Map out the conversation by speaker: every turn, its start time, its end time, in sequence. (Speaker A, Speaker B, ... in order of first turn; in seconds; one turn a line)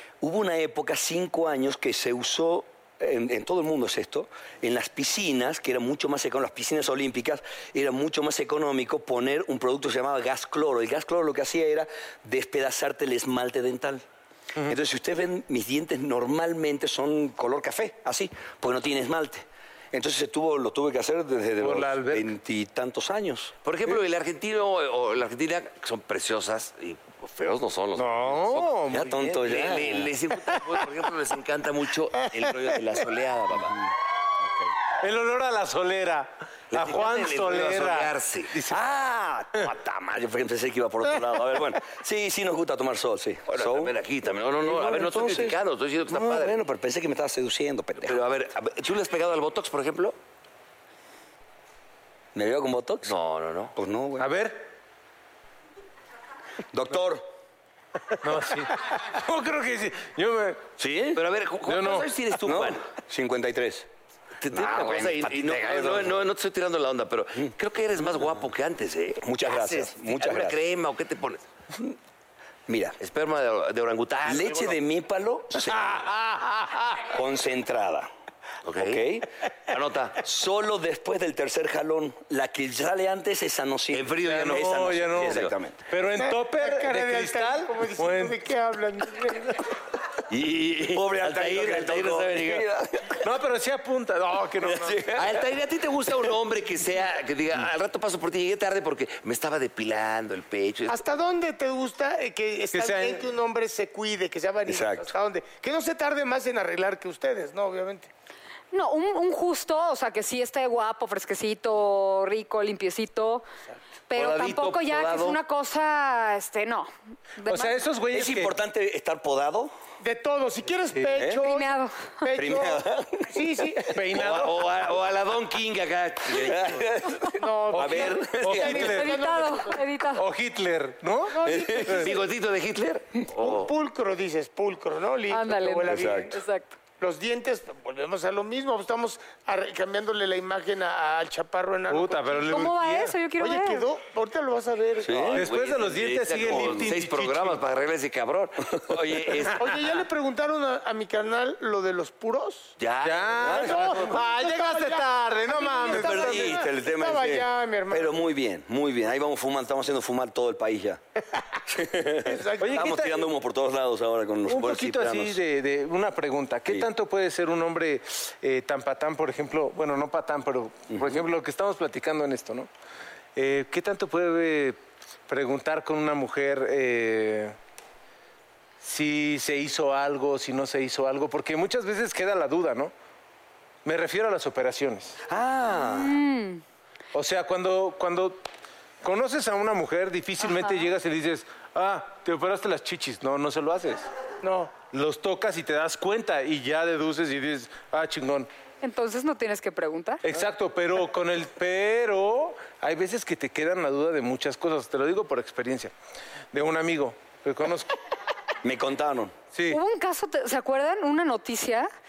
Speaker A: 0.2-14.0
Speaker A: 14.6-23.5
Speaker B: 21.6-22.3
Speaker C: 23.6-33.8
Speaker B: 28.0-29.2
Speaker A: 29.0-30.1
Speaker B: 35.0-38.8
Speaker C: 36.7-38.5
Speaker A: 38.7-43.9
Speaker C: 43.5-46.6
Speaker A: 44.6-48.2
Speaker C: 48.0-50.1
Speaker A: 52.4-53.1
Speaker C: 53.1-53.7
Speaker A: 53.7-54.3
Speaker B: 54.2-54.6
Speaker A: 56.7-57.2
Speaker B: 58.2-60.7
Speaker A: 60.8-61.2
Speaker C: 61.1-62.9
Speaker B: 61.7-62.1
Speaker A: 62.4-63.9
Speaker C: 64.4-71.4
Speaker A: 64.5-66.2
Speaker A: 69.2-70.6
Speaker A: 72.7-73.0
Speaker C: 73.0-74.8
Speaker A: 74.2-76.0
Speaker A: 77.0-78.1
Speaker C: 78.7-79.0
Speaker A: 78.8-79.3
Speaker C: 79.7-80.2
Speaker A: 80.2-85.8
Speaker C: 83.9-85.5
Speaker B: 84.2-88.4
Speaker D: 86.2-89.6
Speaker C: 90.3-92.7
Speaker A: 90.8-93.2
Speaker B: 93.2-95.1
Speaker A: 94.6-95.4
Speaker C: 95.2-101.0
Speaker D: 100.9-108.1
Speaker B: 102.7-103.3
Speaker A: 104.7-105.1
Speaker E: 108.7-113.5
Speaker E: 114.1-117.8
Speaker C: 114.2-115.4
Speaker B: 117.5-118.5
Speaker A: 118.1-119.7
Speaker D: 120.0-124.0
Speaker E: 121.3-122.2
Speaker A: 122.3-123.3
Speaker B: 123.9-124.5
Speaker C: 124.1-126.9
Speaker A: 126.3-128.9
Speaker D: 127.4-129.8
Speaker B: 127.7-129.2
Speaker E: 128.7-130.2
Speaker B: 130.2-132.1
Speaker D: 131.3-132.2
Speaker A: 131.5-132.0
Speaker C: 131.8-133.7
Speaker D: 133.4-136.3
Speaker E: 135.3-136.8
Speaker A: 135.9-136.4
Speaker D: 137.0-142.6
Speaker B: 141.9-143.2
Speaker E: 142.5-143.9
Speaker D: 143.4-145.4
Speaker A: 145.0-145.4
Speaker C: 145.1-149.6
Speaker B: 145.3-147.6
Speaker A: 146.5-146.8
Speaker D: 149.6-152.8
Speaker C: 152.8-154.1
Speaker B: 153.0-156.7
Speaker D: 153.5-158.2
Speaker A: 155.9-161.0
Speaker A: 161.7-165.4
Speaker D: 162.2-163.1
Speaker B: 162.6-163.3
Speaker B: 164.4-172.7
Speaker A: 170.9-171.2
Speaker B: 173.4-177.6
Speaker B: 178.8-182.9
Speaker B: 183.8-185.2
Speaker A: 185.3-186.2
Speaker E: 185.7-186.6
Speaker B: 187.1-188.4
Speaker B: 189.0-194.1
Speaker E: 190.5-190.9
Speaker D: 194.4-194.8
Speaker B: 194.8-198.5
Speaker E: 198.8-200.3
Speaker B: 200.2-205.9
Speaker B: 206.5-208.0
Speaker A: 208.6-209.4
Speaker B: 209.5-209.8
Speaker E: 209.7-211.9